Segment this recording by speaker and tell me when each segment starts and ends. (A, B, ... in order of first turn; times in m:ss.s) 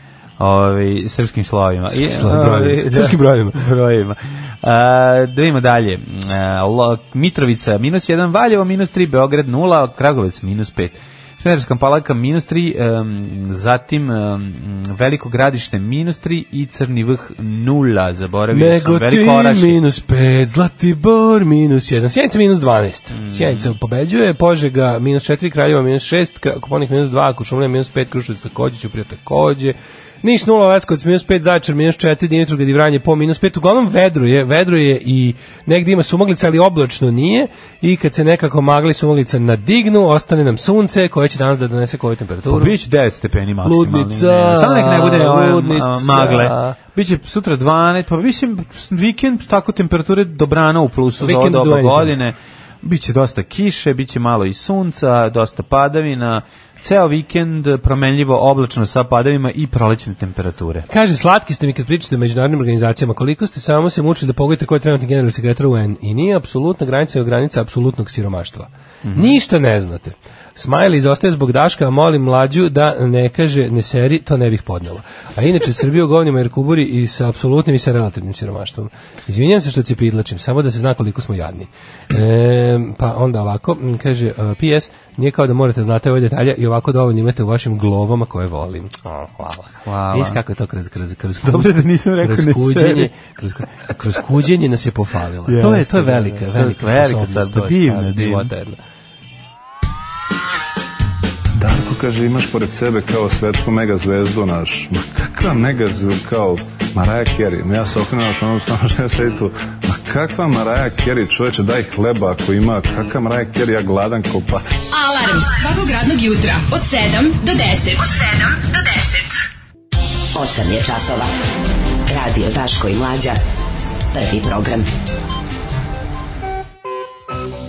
0:00.4-0:19.8 A
0:01.9-0:03.6 B
0:18.5-0:42.8 B
0:23.1-0:23.7 A
0:42.5-1:00.9 A
0:43.6-0:46.8 B
0:51.2-0:52.2 B
1:00.9-1:38.8 B
1:09.0-1:09.4 A
1:29.8-1:30.4 A
1:31.4-1:33.1 A
1:35.5-1:38.5 A
1:41.6-1:54.8 C
1:54.9-1:59.4 D
2:00.3-2:01.3 E
2:02.1-2:03.4 E
2:04.1-2:04.9 E